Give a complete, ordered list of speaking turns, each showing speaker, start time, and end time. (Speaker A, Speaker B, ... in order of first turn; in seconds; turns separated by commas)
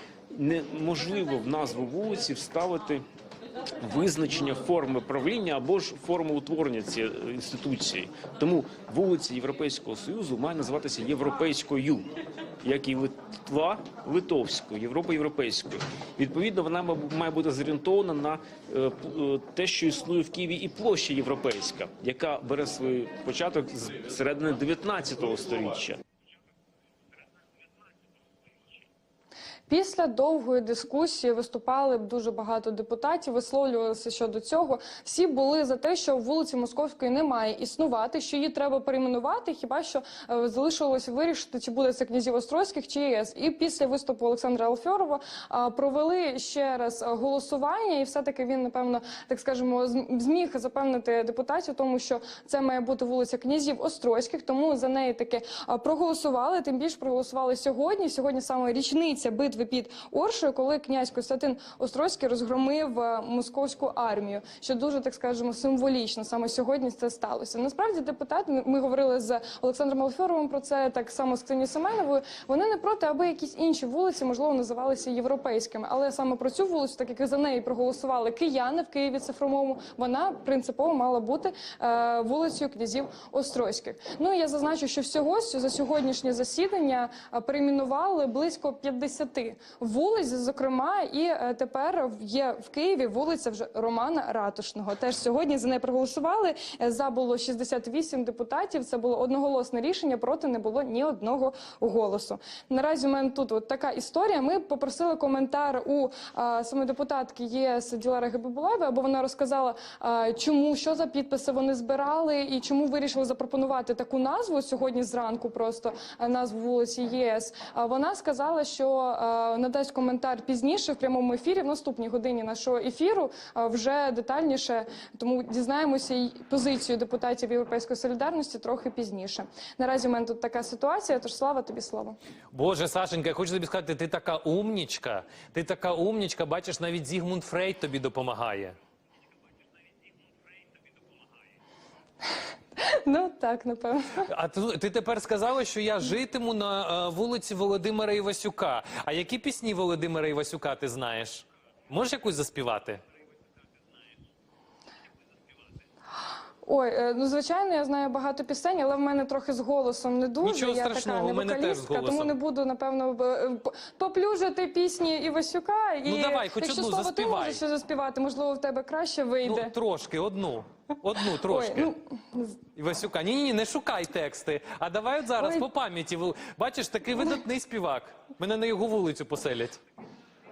Speaker A: 0.3-3.0, Speaker A: 3.8-26.0, Speaker B: 29.7-132.2, Speaker C: 132.5-138.8, Speaker B: 142.8-144.2, Speaker C: 144.2-153.0, Speaker B: 156.6-169.7, Speaker C: 160.4-162.3, Speaker C: 166.0-167.6, Speaker C: 169.4-171.9, Speaker B: 171.4-172.6, Speaker C: 172.7-179.8, Speaker B: 175.4-175.7